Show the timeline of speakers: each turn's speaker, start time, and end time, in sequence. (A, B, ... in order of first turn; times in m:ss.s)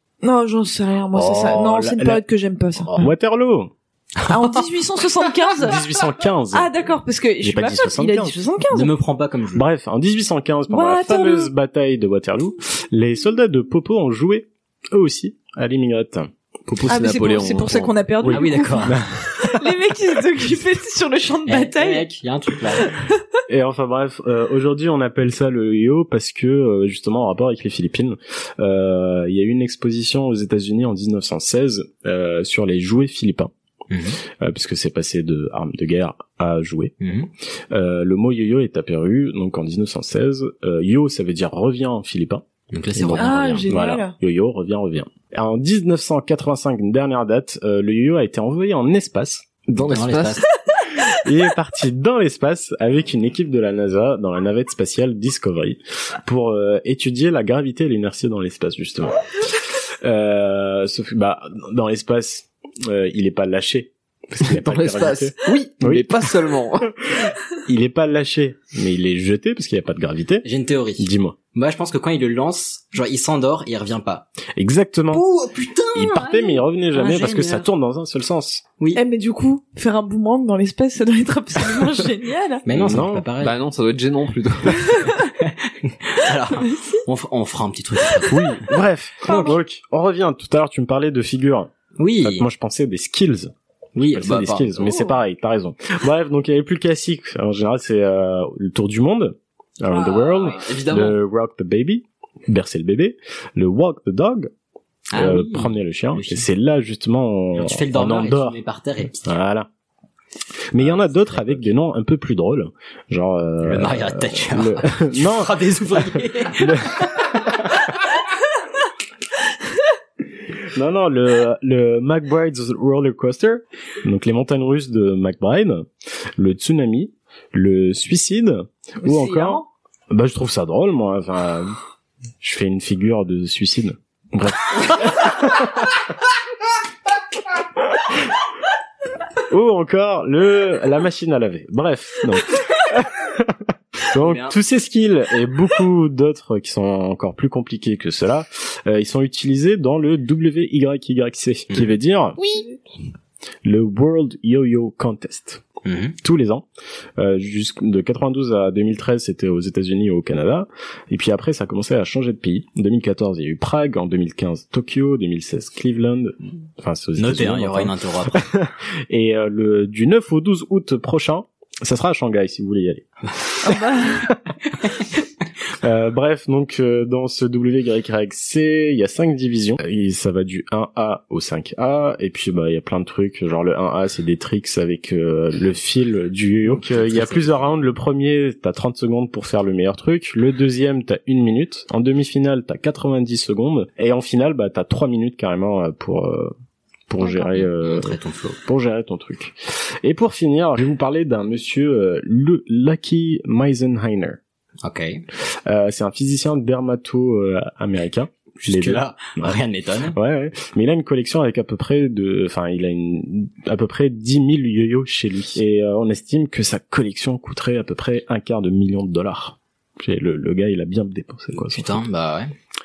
0:00.2-0:02.9 A
0:01.1-0:02.2 B
0:02.9-0:03.7 B
0:04.3-0:05.8 A
0:05.6-0:06.7 B
0:06.5-0:08.9 A
0:07.4-0:08.3 B
0:08.7-0:09.6 C
0:09.5-0:16.3 B
0:10.7-0:11.5 A
0:16.7-0:18.0 D
0:16.9-0:22.0 A
0:18.2-0:19.6 B
0:18.2-0:19.0 C
0:21.4-0:22.9 C
0:23.5-0:33.5 B
0:33.9-0:34.2 C
0:34.4-0:36.9 B
0:37.0-0:37.3 C
0:37.7-0:49.6 B
0:42.7-0:43.7 C
0:43.2-0:44.1 A
0:49.7-0:50.4 D
0:49.8-0:50.4 C
0:51.0-0:59.2 B
1:00.0-1:06.2 B
1:04.4-1:06.9 D
1:07.0-1:10.4 B
1:10.4-1:14.3 C
1:11.0-1:11.4 B
1:14.6-1:15.2 B
1:15.1-1:17.7 C
1:15.9-1:18.6 B
1:18.9-1:22.6 A
1:22.7-1:23.5 C
1:22.7-1:23.3 B
1:23.4-1:24.9 D
1:25.4-1:28.6 C
1:28.3-1:31.7 B
1:29.2-1:29.5 C
1:32.0-1:32.5 C
1:32.2-1:33.5 B
1:34.0-1:35.0 C
1:34.1-1:44.5 B
1:40.1-1:41.1 D
1:45.1-1:46.4 C
1:45.1-1:48.6 B
1:47.5-1:49.3 C
1:49.2-1:49.7 B
1:50.7-1:55.6 B
1:50.8-1:51.7 C
1:53.6-1:57.2 C
1:56.6-1:57.0 B
2:00.7-2:05.9 B
2:06.4-2:11.7 B
2:09.0-2:09.6 A
2:12.4-2:15.9 B
2:19.5-2:23.6 B
2:24.1-2:32.4 B
2:24.1-2:24.6 C
2:33.6-2:35.6 B
2:35.8-2:36.2 C
2:36.2-2:36.6 B
2:37.2-2:53.1 B
2:47.2-2:48.4 C
2:53.6-2:54.2 A
2:53.6-2:54.4 B
2:55.8-3:16.5 B
3:06.6-3:07.7 C
3:17.1-3:24.4 B
3:17.2-3:17.5 A
3:17.5-3:18.6 C
3:24.8-3:25.2 C
3:25.6-3:29.6 B
3:28.6-3:30.2 C
3:30.1-3:42.0 B
3:41.5-3:42.5 C